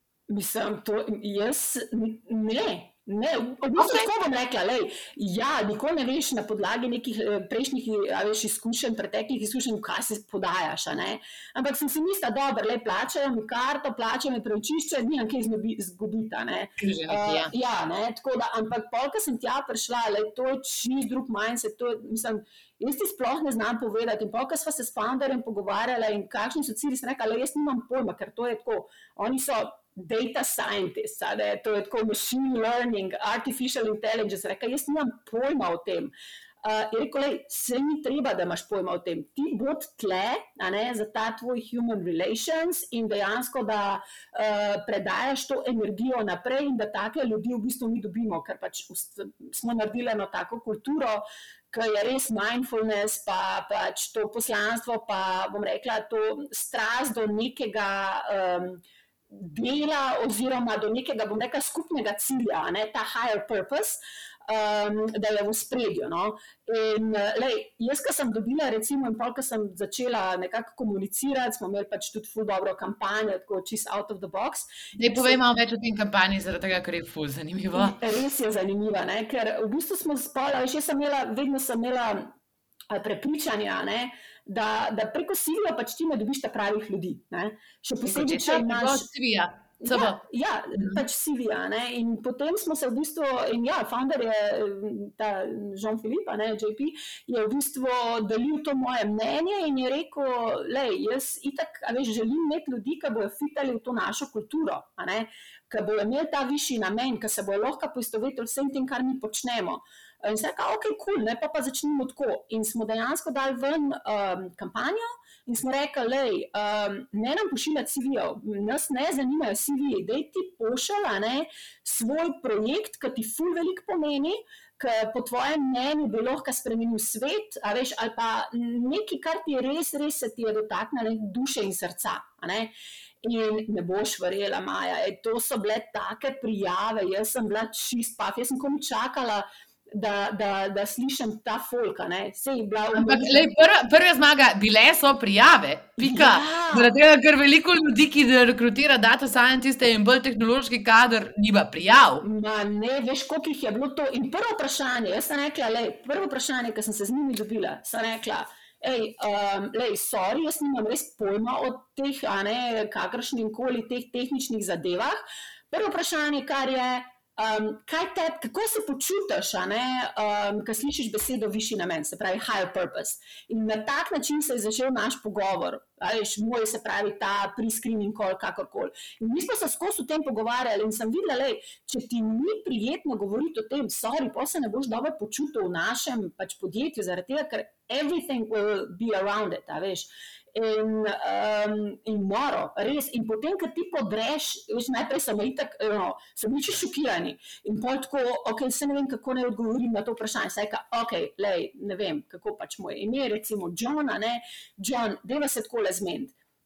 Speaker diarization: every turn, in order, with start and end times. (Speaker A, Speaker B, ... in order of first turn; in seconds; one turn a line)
Speaker A: 0.3-36.1
Speaker B: 3.8-4.1
Speaker B: 16.8-17.5
Speaker A: 36.6-75.4
Speaker B: 75.0-78.0
Speaker A: 77.7-82.3
Speaker A: 82.9-89.1
Speaker B: 88.1-90.2
Speaker A: 89.8-132.7
Speaker A: 133.2-143.6
Speaker B: 142.9-152.2
Speaker A: 146.0-146.9
Speaker A: 152.2-206.3